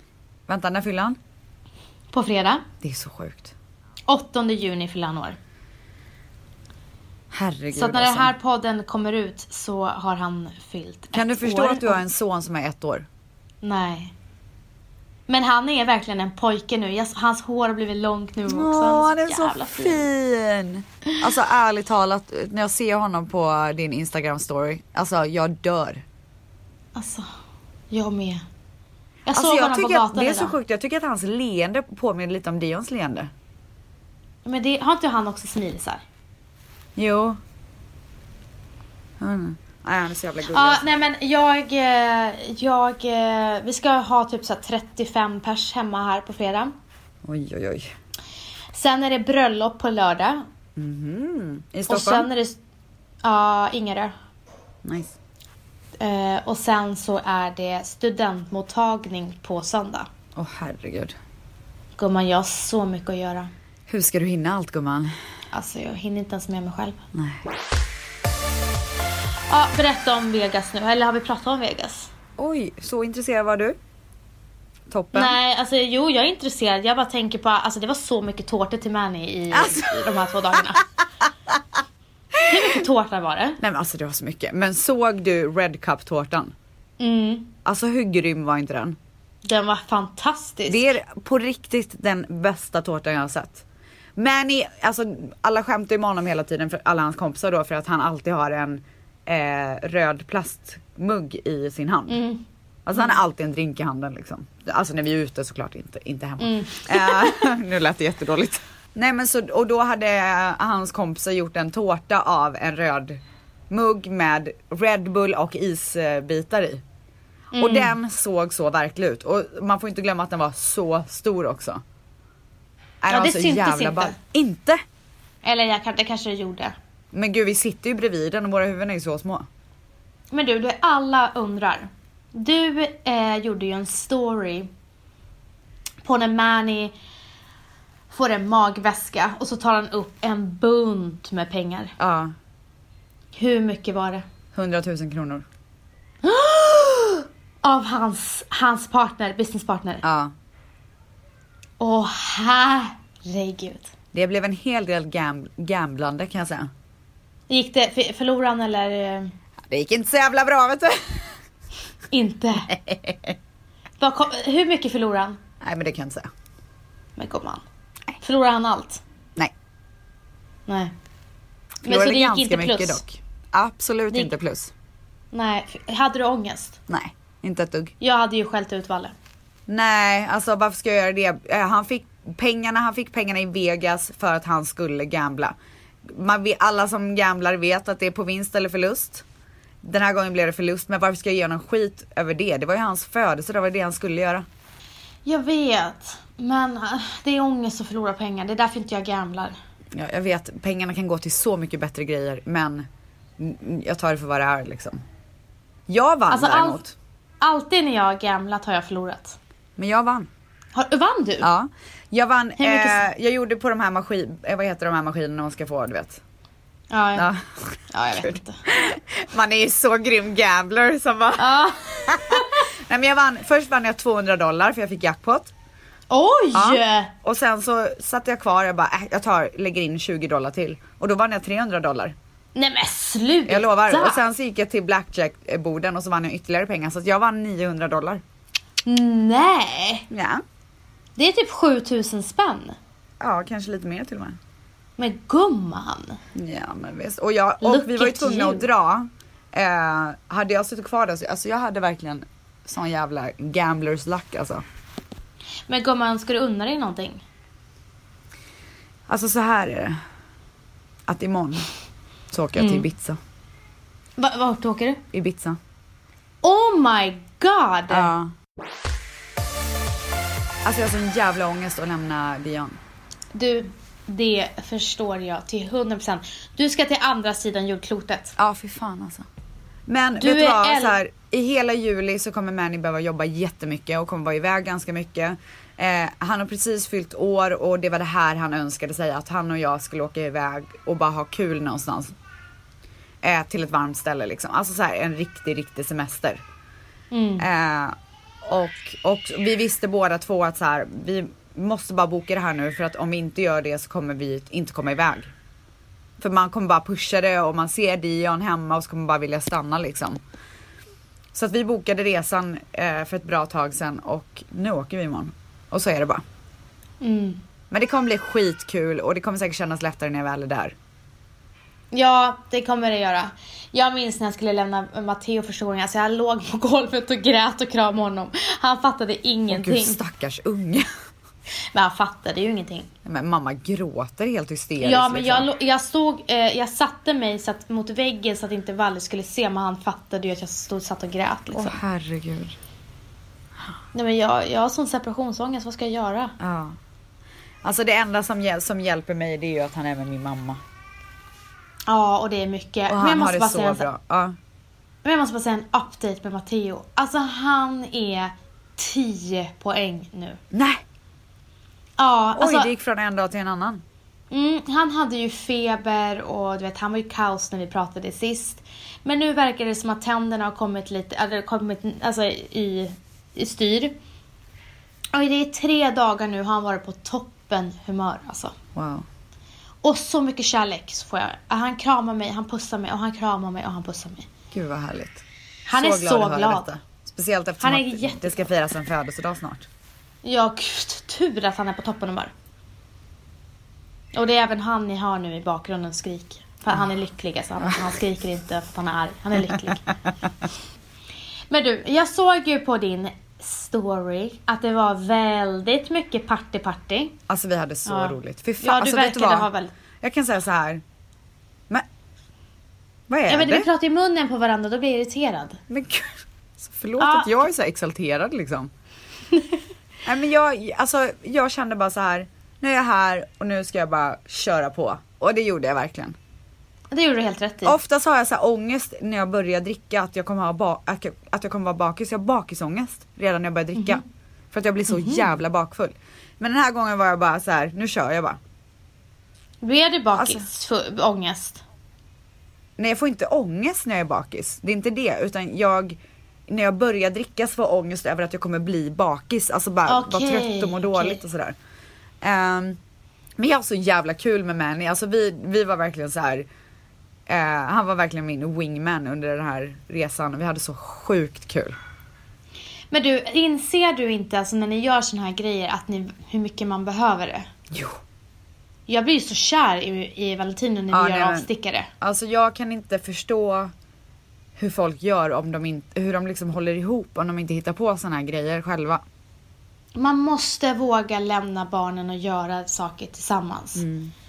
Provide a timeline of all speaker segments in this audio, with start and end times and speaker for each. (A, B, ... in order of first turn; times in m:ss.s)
0:00.5-0:01.2 A
0:02.1-0:02.6 B
0:02.8-0:03.5 A
0:04.1-0:05.4 B
0:07.3-0:08.3 A
0:07.7-0:12.0 B
0:11.1-0:13.1 A
0:13.6-0:14.1 B
0:15.3-0:20.1 B
0:18.5-0:26.0 A
0:27.0-0:27.3 B
0:27.9-0:28.4 B
0:29.3-0:30.6 B
0:29.3-0:33.3 A
0:34.4-0:36.0 B
0:37.0-0:37.4 A
0:39.2-0:40.8 A
0:40.5-0:46.7 B
0:47.2-0:47.9 A
0:48.7-0:50.5 B
0:50.8-0:52.3 A
0:51.9-0:52.6 B
0:53.2-0:54.1 B
0:54.8-0:55.1 A
0:56.0-1:00.1 B
1:00.4-1:01.2 A
1:02.0-1:03.5 B
1:03.9-1:05.1 A
1:05.5-1:07.0 B
1:07.1-1:07.5 A
1:09.5-1:12.1 B
1:12.4-1:13.8 A
1:14.9-1:15.4 A
1:15.1-1:20.8 B
1:19.5-1:20.8 A
1:22.4-1:22.8 A
1:22.4-1:23.6 B
1:23.6-1:26.5 A
1:27.0-1:27.5 B
1:27.6-1:29.0 A
1:29.4-1:30.9 B
1:30.7-1:33.6 A
1:34.2-1:42.2 A
1:42.1-1:42.4 B
1:42.9-1:56.8 A
1:46.4-1:47.5 B
1:57.5-1:58.0 B
1:57.6-2:01.8 A
2:03.0-2:04.8 A
2:03.1-2:04.2 B
2:05.4-2:06.7 B
2:07.1-2:09.5 A
2:10.3-2:14.7 B
2:16.0-2:16.9 B
2:18.1-2:21.9 B
2:22.0-2:22.3 A
2:23.3-2:24.2 B
2:24.5-2:25.4 A
2:26.2-2:30.0 B
2:30.0-2:30.3 A
2:31.8-2:33.9 B
2:34.1-2:36.7 A
2:37.5-2:39.3 B
2:39.7-2:41.3 A
2:42.1-2:42.7 B
2:42.7-2:43.4 A
2:44.0-2:45.4 B
2:45.6-2:46.3 A
2:47.2-2:47.6 B
2:48.2-2:49.0 B
2:50.7-2:50.9 B
2:51.8-2:54.7 A
2:51.8-2:53.0 B
2:55.3-2:56.8 B
2:56.9-2:57.9 A
2:58.0-2:59.1 B
2:59.7-3:09.2 A
3:09.8-3:14.5 A
3:15.2-3:19.6 B
3:19.9-3:22.9 A
3:23.4-3:25.0 A
3:25.9-3:27.0 A
3:26.3-3:26.8 B
3:27.4-3:29.4 B
3:29.8-3:30.3 A
3:30.8-3:31.5 B
3:31.4-3:36.2 A
3:32.6-3:33.0 B
3:36.9-3:37.3 B
3:37.2-3:45.5 A
3:37.9-3:38.6 B
3:41.4-3:42.6 B
3:46.1-3:47.1 B
3:46.5-3:52.2 A
3:52.6-3:54.2 B
3:53.5-3:58.2 A
3:58.9-4:00.1 B
4:00.1-4:00.4 A
4:01.2-4:02.8 B
4:03.2-4:04.4 A
4:05.0-4:06.2 B
4:06.4-4:14.6 A
4:07.6-4:08.7 B
4:15.7-4:17.2 B
4:19.1-4:20.0 A
4:21.1-4:21.7 A
4:22.3-4:23.2 A
4:22.6-4:22.9 B
4:24.2-4:25.0 B
4:25.1-4:25.6 A
4:26.4-4:28.1 B
4:27.9-4:28.3 A
4:30.6-4:32.8 A
4:33.3-4:38.4 B
4:38.4-4:39.3 A
4:39.9-4:52.1 A
4:40.2-4:41.0 B
4:53.2-4:56.4 A
4:57.1-4:57.5 B
4:57.4-5:05.3 A
5:06.2-5:10.2 A
5:11.3-5:16.2 A
5:17.0-5:17.4 B
5:17.7-5:20.8 A
5:21.9-5:30.0 B
5:29.5-5:30.9 A
5:31.7-5:32.9 B
5:33.0-5:35.5 A
5:34.8-5:41.8 B
5:41.5-5:42.6 A
5:43.9-5:46.4 B
5:46.4-5:46.8 A
5:47.6-5:50.6 A
5:51.9-5:53.9 B
5:52.9-5:54.4 A
5:55.0-6:00.4 B
6:00.5-6:00.8 A
6:02.0-6:02.7 B
6:02.4-6:03.8 A
6:04.3-6:14.0 B
6:15.1-6:18.6 B
6:18.8-6:19.0 A
6:19.8-6:24.3 B
6:24.5-6:29.7 A
6:25.7-6:26.7 B
6:27.6-6:28.4 B
6:30.2-6:32.3 B
6:34.1-6:39.9 B
6:41.5-6:47.2 B
6:47.3-6:49.5 A
6:47.9-6:49.7 B
6:50.0-6:50.8 A
6:53.1-6:53.7 A
6:53.3-6:55.6 B
6:55.7-6:58.7 A
6:57.0-6:57.3 B
7:00.0-7:06.2 A
7:06.9-7:07.8 B
7:07.6-7:18.4 A
7:13.8-7:14.0 B
7:14.9-7:15.3 B
7:19.6-7:21.6 B
7:20.2-7:20.5 A
7:22.8-7:31.6 A
7:29.9-7:31.2 B
7:32.2-7:32.8 A
7:33.4-7:36.5 A
7:37.3-7:41.8 A
7:42.9-7:47.5 B
7:47.7-7:48.0 A
7:48.9-7:51.9 B
7:50.9-7:51.5 A
7:52.0-7:53.7 A
7:54.6-7:59.0 A
8:00.0-8:03.8 B
8:03.8-8:04.1 A